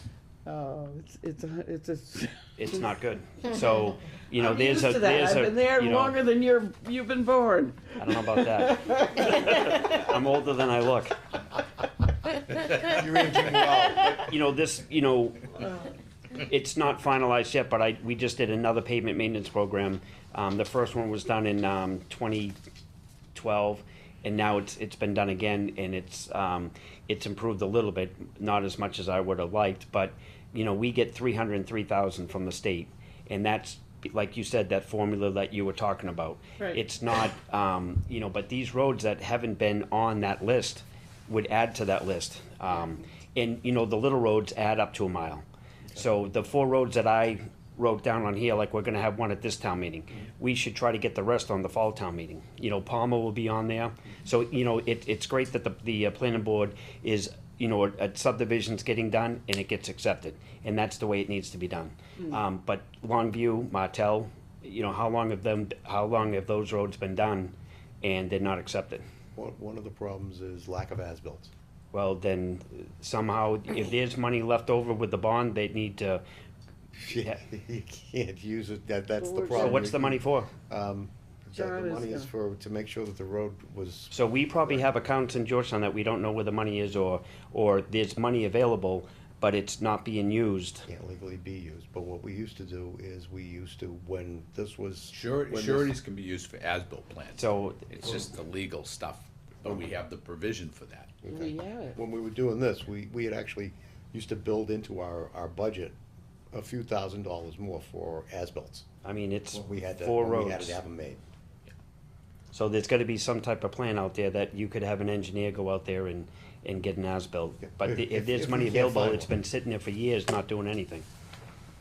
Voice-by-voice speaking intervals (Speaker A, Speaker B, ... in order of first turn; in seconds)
Speaker A: 0.5-2.9, 4.4-10.1, 36.6-36.9, 42.7-43.0, 79.2-79.9, 81.5-82.3, 101.3-102.0
Speaker B: 2.6-6.2, 8.0-11.3, 14.1-15.5, 16.4-22.6, 23.3-69.0, 71.9-76.2, 79.5-80.5, 84.1-90.8, 97.4-98.1, 109.0-110.8, 112.5-121.0
Speaker C: 12.7-14.2, 69.3-71.5, 77.0-84.1, 90.9-95.9, 99.6-99.9, 101.2-106.0, 106.5-108.8, 109.5-111.2, 117.6-119.3
Speaker D: 95.1-101.1